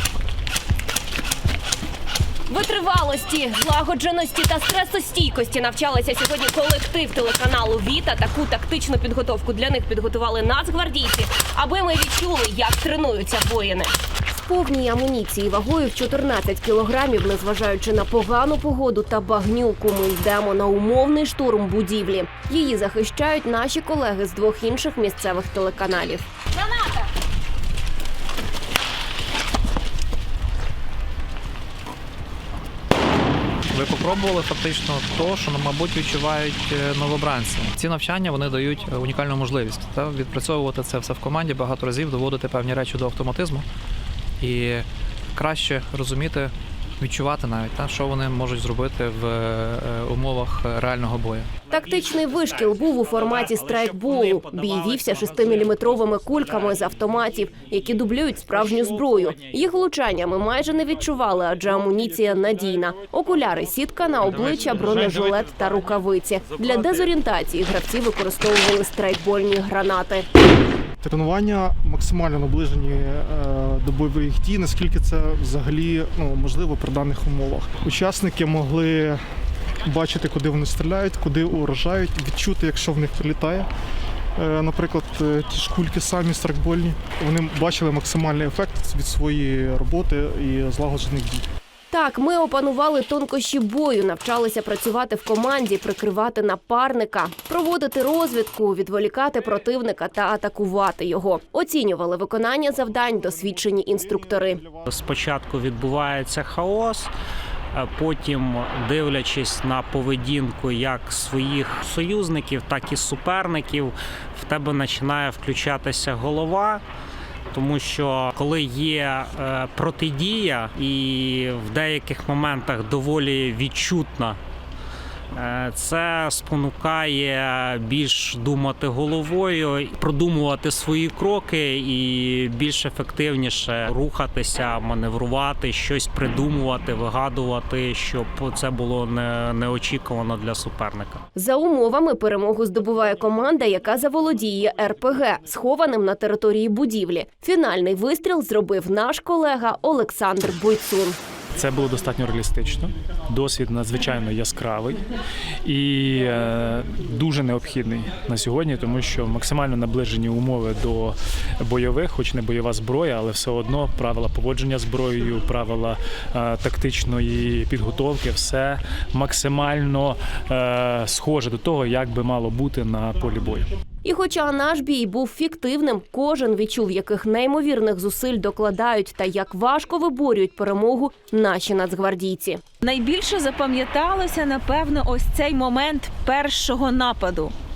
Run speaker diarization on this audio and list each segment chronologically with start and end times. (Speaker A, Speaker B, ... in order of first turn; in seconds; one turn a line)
Speaker A: 2.5-26.2
Speaker B: 26.7-27.0
Speaker C: 33.8-43.6
Speaker C: 44.4-51.5
Speaker A: 51.7-70.3
Speaker D: 51.7-55.5
Speaker E: 71.0-79.2
Speaker E: 79.8-83.7
Speaker E: 84.4-91.5
Speaker A: 91.9-104.6
Speaker E: 103.4-104.9
Speaker D: 104.9-107.1
Speaker D: 107.7-116.8
Speaker D: 117.5-124.4
Speaker D: 125.3-141.2
Speaker A: 141.3-151.2
Speaker F: 151.5-155.0
Speaker F: 155.6-173.7
Speaker A: 174.0-182.6
Speaker B: 182.8-187.5